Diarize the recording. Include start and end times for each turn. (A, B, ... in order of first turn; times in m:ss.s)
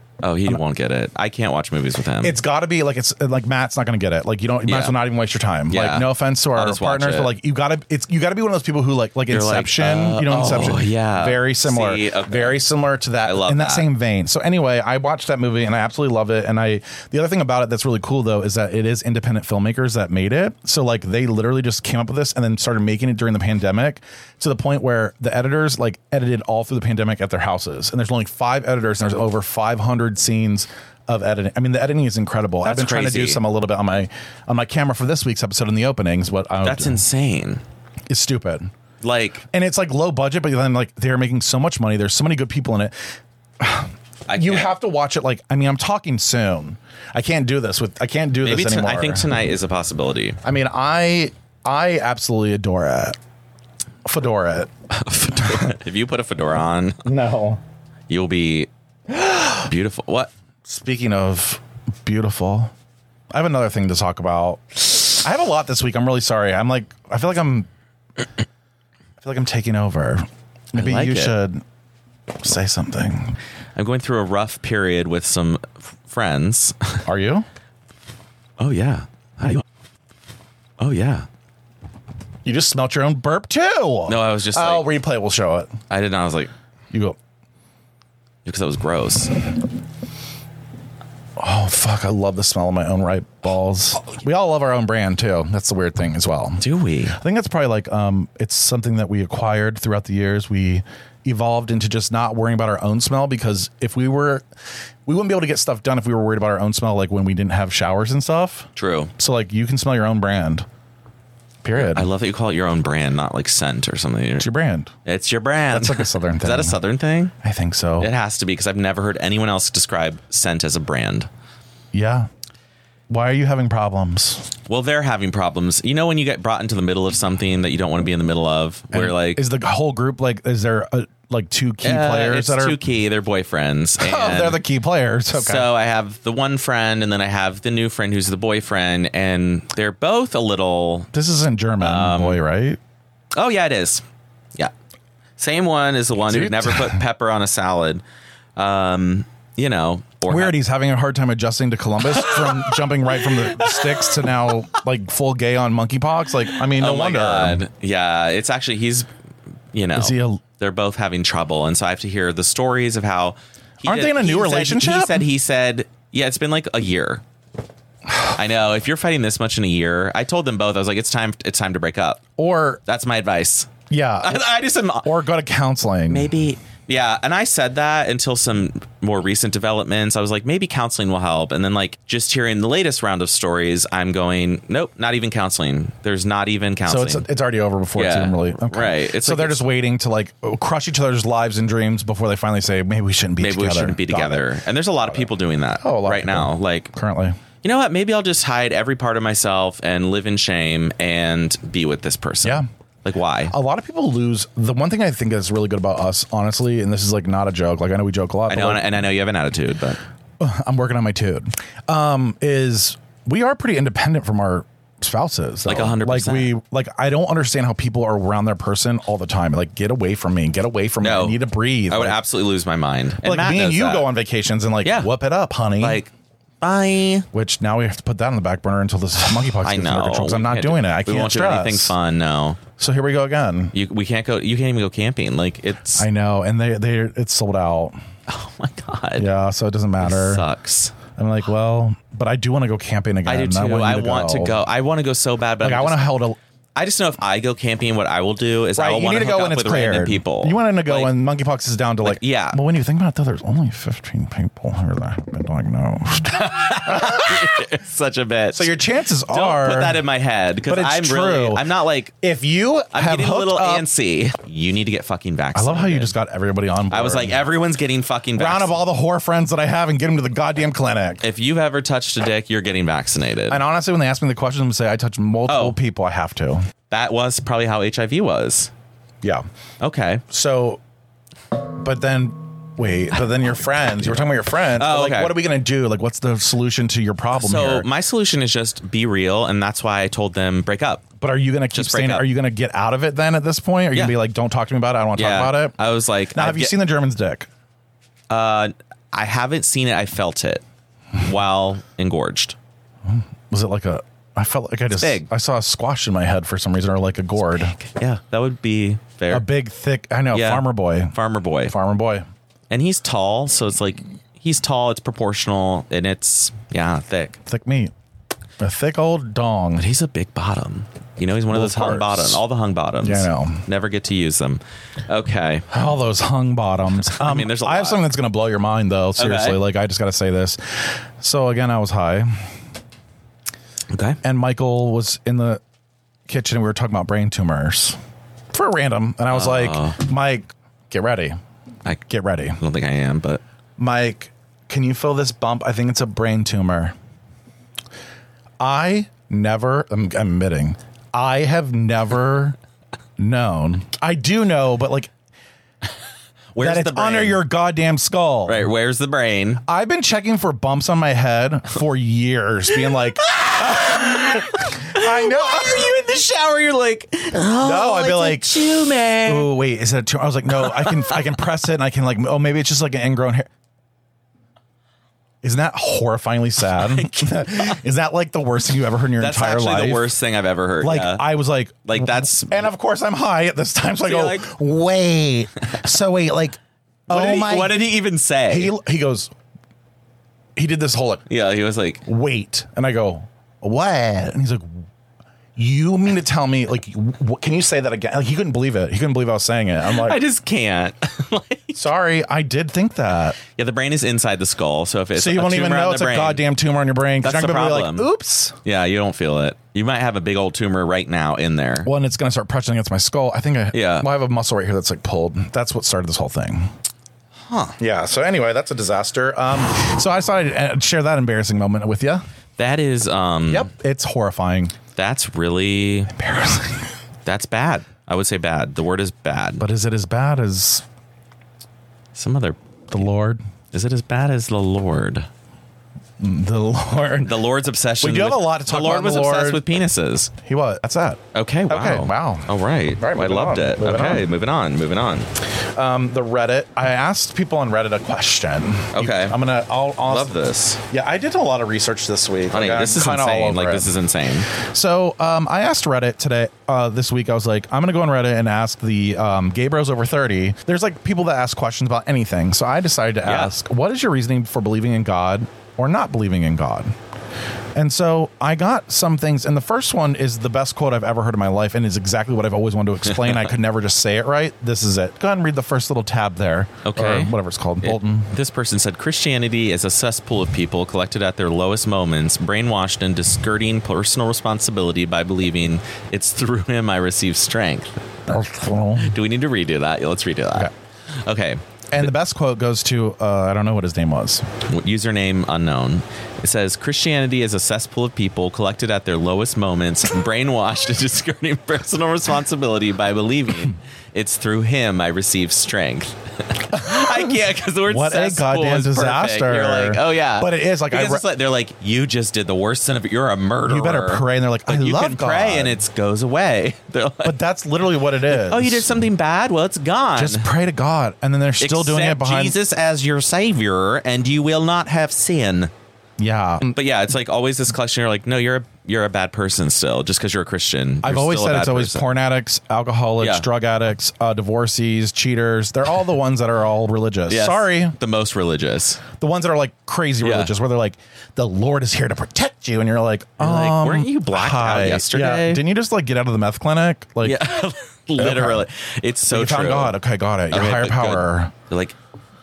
0:00.2-0:02.4 A
0:02.2-0:37.0 B
0:04.7-0:05.0 A
0:05.7-0:07.4 A
0:09.3-0:12.6 A
0:13.2-0:13.9 A
0:32.6-0:33.4 A
0:36.6-0:37.6 A
0:38.1-0:38.7 B
0:39.0-0:39.5 A
0:39.5-0:43.0 B
0:43.6-0:49.3 B
0:44.3-0:44.8 A
0:48.4-0:50.4 A
0:50.4-0:53.2 B
0:54.0-0:54.7 B
0:54.9-0:57.1 A
0:55.4-0:55.7 B
0:57.0-0:57.6 B
0:58.1-0:58.7 A
0:59.1-0:59.7 B
0:59.6-1:00.3 A
1:00.6-1:02.7 B
1:03.3-1:07.7 B
1:09.2-1:11.6 B
1:10.8-1:11.4 A
1:12.4-1:13.4 B
1:13.8-1:17.0 A
1:17.1-1:17.5 B
1:18.6-1:19.6 A
1:20.8-1:21.3 A
1:22.4-1:25.7 B
1:24.1-1:24.9 A
1:25.9-1:26.5 A
1:26.9-1:27.2 B
1:28.4-1:29.3 A
1:31.4-1:44.5 B
1:36.6-1:37.2 A
1:45.1-1:50.7 B
1:48.8-1:49.1 A
1:51.6-1:52.1 B
1:51.8-1:54.5 A
1:54.4-1:54.9 B
1:55.0-1:57.3 A
1:55.7-1:56.8 B
1:57.4-1:58.1 B
1:58.0-2:01.3 A
2:01.9-2:02.3 B
2:03.1-2:04.5 B
2:04.7-2:09.4 A
2:08.9-2:12.8 B
2:11.8-2:14.6 A
2:14.0-2:15.7 B
2:15.3-2:21.1 A
2:21.1-2:22.8 B
2:21.8-2:22.4 A
2:23.3-2:24.0 A
2:25.4-2:28.0 A
2:26.3-2:27.0 B
2:28.6-2:30.6 A
2:30.3-2:37.6 B
2:32.3-2:34.2 A
2:36.7-2:39.1 A
2:39.7-2:47.2 A
2:40.0-2:40.4 B
2:43.8-2:45.2 B
2:48.3-2:52.2 A
2:52.4-2:52.8 B
2:52.9-2:55.1 A
2:53.9-2:54.5 B
2:55.0-2:56.3 B
2:56.1-3:07.3 A
3:06.9-3:14.5 B
3:08.0-3:09.7 A
3:13.4-3:16.9 A
3:15.8-3:17.4 B
3:17.6-3:23.5 A
3:23.5-3:29.1 B
3:28.5-3:30.0 A
3:30.4-3:42.2 B
3:35.7-3:36.6 A
3:41.0-3:44.1 A
3:43.2-3:46.0 B
3:44.8-3:45.1 A
3:45.8-3:47.3 A
3:47.3-3:52.0 B
3:49.6-3:52.6 A
3:52.8-3:53.7 B
3:53.7-3:56.1 A
3:56.0-3:58.0 B
3:58.3-3:59.3 A
3:59.2-4:00.4 B
4:00.0-4:01.0 A
4:01.1-4:04.6 B
4:03.3-4:06.1 A
4:05.6-4:06.4 B
4:06.8-4:11.2 A
4:08.8-4:17.7 B
4:12.0-4:12.6 A
4:16.3-4:18.7 A
4:18.5-4:20.1 B
4:19.3-4:22.1 A
4:20.6-4:21.7 B
4:22.2-4:23.9 B
4:22.9-4:26.2 A
4:25.6-4:27.5 B
4:26.9-4:28.7 A
4:28.4-4:31.2 B
4:31.2-4:33.6 A
4:33.5-4:36.6 B
4:35.5-4:35.8 A
4:36.9-4:38.7 A
4:39.8-4:40.2 A
4:40.3-4:40.8 B
4:41.5-4:47.9 B
4:44.0-4:45.4 A
4:47.3-4:51.1 A
4:51.2-4:55.8 B
4:51.7-4:52.2 A
4:55.2-4:56.8 A
4:56.3-4:57.5 B
4:58.3-5:00.6 A
5:01.2-5:02.6 A
5:03.1-5:07.8 B
5:05.0-5:05.3 A
5:07.5-5:09.5 A
5:09.3-5:12.3 B
5:10.3-5:11.8 A
5:12.7-5:17.4 A
5:17.5-5:17.9 B
5:18.6-5:19.9 B
5:19.8-5:25.7 A
5:21.5-5:22.4 B
5:23.0-5:23.6 B
5:25.7-5:32.5 B
5:26.9-5:28.1 A
5:29.2-5:29.6 A
5:33.9-5:34.2 A
5:34.2-5:35.6 B
5:36.3-5:38.0 B
5:38.5-5:41.4 B
5:39.3-5:40.0 A
5:42.1-5:42.6 B
5:42.6-5:43.4 A
5:43.8-5:47.0 B
5:48.6-5:52.6 B
5:53.2-5:55.1 B
5:56.5-5:57.4 A
5:56.6-5:58.7 B
5:58.5-5:59.6 A
5:59.6-6:05.9 B
6:03.3-6:09.5 A
6:07.6-6:08.7 B
6:09.2-6:13.5 B
6:10.6-6:11.2 A
6:15.4-6:20.2 B
6:16.7-6:17.8 A
6:19.2-6:21.3 A
6:20.8-6:26.6 B
6:21.9-6:22.7 A
6:24.0-6:24.5 A
6:27.1-6:28.8 A
6:27.1-6:27.8 B
6:28.5-6:29.3 B
6:30.6-6:31.3 B
6:31.3-6:32.0 A
6:32.1-6:34.8 B
6:35.6-6:40.2 B
6:39.9-6:41.8 A
6:41.8-6:43.4 B
6:43.6-6:46.4 A
6:45.2-6:48.6 B
6:47.2-6:48.1 A
6:48.6-6:51.9 A
6:51.8-6:56.7 B
6:53.7-6:54.1 A
6:57.5-6:57.8 A
6:57.8-7:02.2 B
7:02.6-7:03.7 A
7:03.5-7:04.8 B
7:05.0-7:06.1 A
7:06.1-7:06.9 B
7:07.2-7:09.7 A
7:09.6-7:10.8 B
7:12.2-7:13.1 A
7:12.9-7:13.4 B
7:13.7-7:15.3 A
7:16.2-7:17.4 B
7:17.2-7:20.3 A
7:18.0-7:19.6 B
7:20.4-7:24.3 B
7:21.3-7:25.3 A
7:25.7-7:34.0 B
7:28.9-7:29.4 A
7:30.1-7:30.8 A
7:32.5-7:34.5 A
7:34.5-7:47.0 B
7:43.2-7:43.5 A
7:47.8-7:58.3 B
7:56.8-8:08.0 A
8:08.3-8:09.2 B
8:09.0-8:10.7 A
8:11.2-8:12.1 A
8:11.9-8:14.5 B
8:14.6-8:37.4 A
8:26.8-8:27.3 B
8:27.9-8:31.3 B
8:33.7-8:35.8 B
8:37.2-8:38.9 B
8:38.3-8:40.5 A
8:40.2-8:42.6 B
8:41.6-8:45.7 A
8:46.2-8:46.7 B
8:46.7-8:52.1 A
8:51.0-8:58.0 B
8:53.2-8:53.5 A
8:57.3-8:59.0 A
8:59.2-9:07.4 B
9:00.2-9:00.5 A
9:03.4-9:05.6 A
9:07.2-9:10.0 A
9:08.2-9:08.7 B
9:09.3-9:11.5 B
9:10.5-9:12.0 A